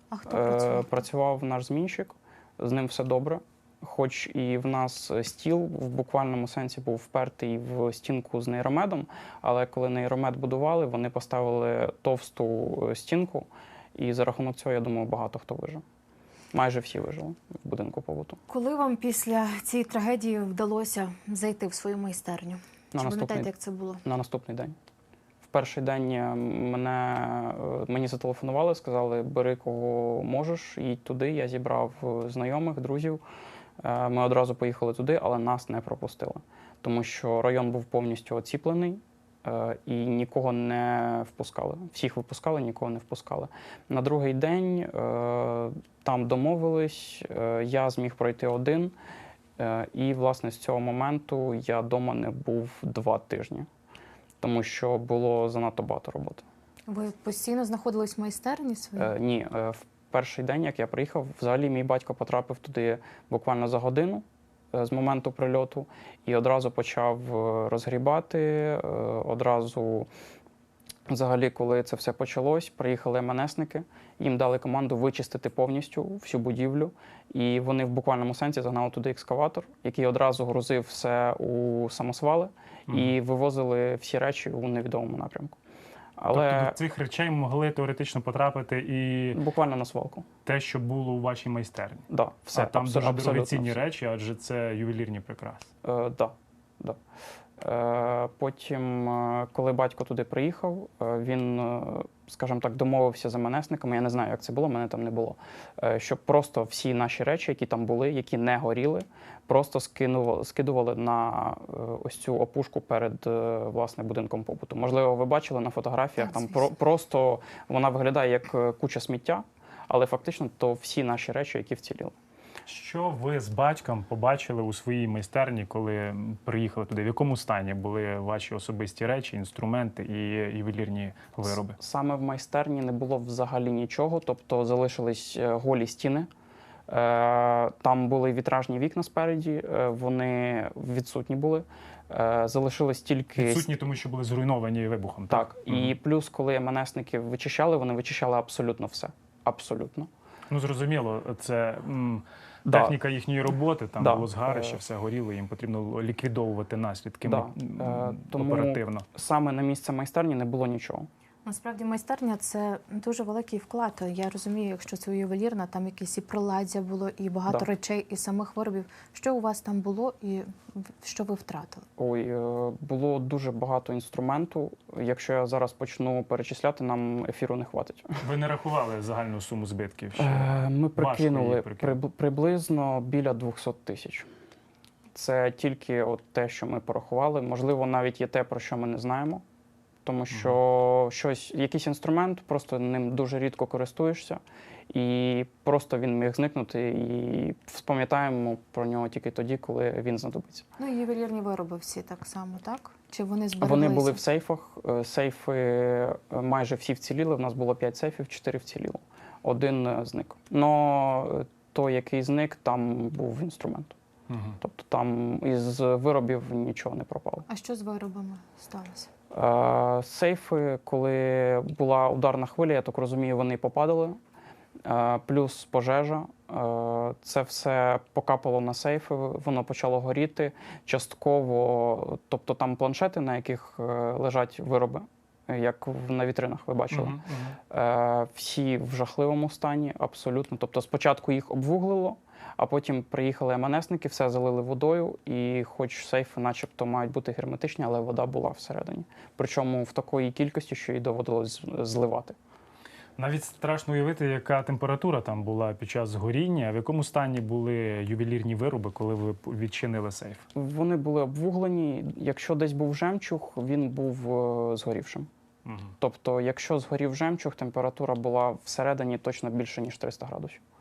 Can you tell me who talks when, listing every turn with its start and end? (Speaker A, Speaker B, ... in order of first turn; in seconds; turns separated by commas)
Speaker A: 0.1-0.9, Speaker B: 0.3-15.8, Speaker B: 16.5-18.4, Speaker A: 18.5-24.0, Speaker B: 22.9-23.5, Speaker B: 24.0-24.8, Speaker B: 25.4-33.2, Speaker B: 33.8-49.0, Speaker B: 49.6-53.7, Speaker B: 54.4-56.4, Speaker A: 56.9-59.1, Speaker B: 59.0-70.1, Speaker B: 71.1-85.6, Speaker C: 82.9-83.1, Speaker B: 86.2-86.8, Speaker C: 86.3-89.4, Speaker B: 89.3-90.2, Speaker C: 90.5-95.7, Speaker B: 92.1-93.8, Speaker B: 95.8-97.0, Speaker B: 97.6-122.1, Speaker A: 116.2-116.7, Speaker C: 122.7-131.8, Speaker B: 131.5-136.3, Speaker B: 136.9-143.7, Speaker C: 143.4-145.9, Speaker B: 145.3-150.1, Speaker C: 150.5-159.1, Speaker B: 152.7-153.0, Speaker B: 154.0-154.8, Speaker B: 157.2-161.1, Speaker A: 161.4-171.9, Speaker B: 172.0-178.2, Speaker C: 178.2-182.0, Speaker B: 180.2-184.3, Speaker B: 185.1-189.4, Speaker B: 190.0-200.7, Speaker A: 200.8-204.2, Speaker B: 203.6-214.0, Speaker C: 214.3-214.6, Speaker B: 214.6-217.5, Speaker A: 217.5-219.1, Speaker B: 219.3-224.2, Speaker B: 224.8-237.2, Speaker C: 236.9-237.6, Speaker B: 237.7-252.4, Speaker C: 253.2-260.5, Speaker B: 260.6-265.3, Speaker C: 265.7-265.9, Speaker B: 266.0-270.6